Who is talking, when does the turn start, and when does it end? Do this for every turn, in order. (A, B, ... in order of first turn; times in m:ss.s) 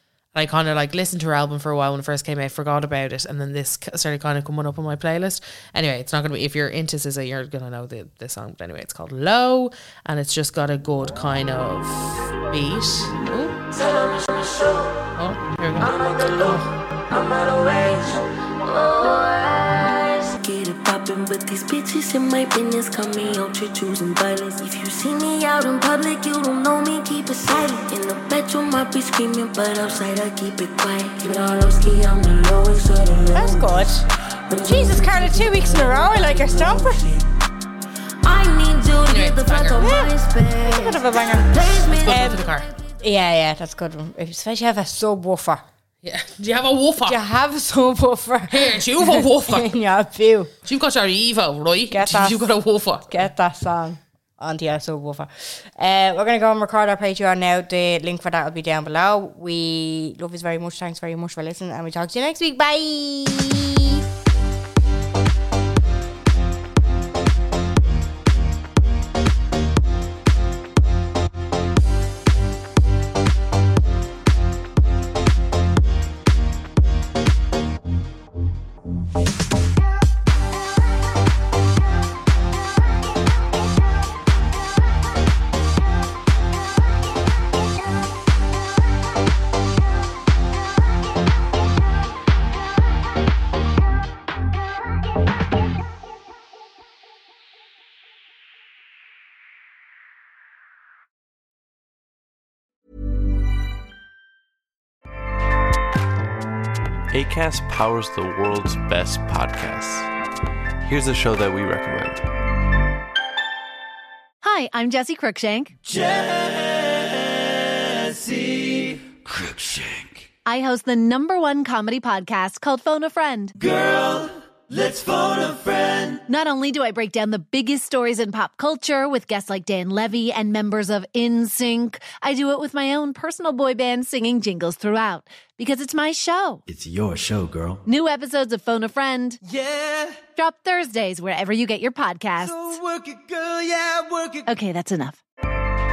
0:00.3-0:13.6 A
0:13.7-0:15.1 B
0:15.2-0:16.7 A
0:15.8-0:37.2 B
0:33.3-0:34.0 C
0:34.6-0:37.1 C
0:38.2-0:42.8 B
0:39.1-0:39.9 A
0:39.8-0:42.2 C
0:41.8-0:42.7 A
0:43.0-0:45.6 C
0:46.0-0:47.2 A
0:47.0-0:50.5 C
0:48.5-0:49.8 A
0:50.6-0:53.3 A
0:51.9-0:52.5 C
0:53.1-1:04.0 C
1:47.1-1:50.1 D
1:50.8-1:52.3 D
1:54.4-1:55.8 E
1:55.9-2:00.1 F
2:00.4-2:03.6 E
2:03.6-2:06.2 F
2:06.2-2:16.6 E
2:16.7-2:17.8 F
2:17.8-2:19.4 E
2:19.5-2:20.3 F
2:20.3-2:22.8 E
2:22.4-2:24.4 F
2:24.4-2:25.2 E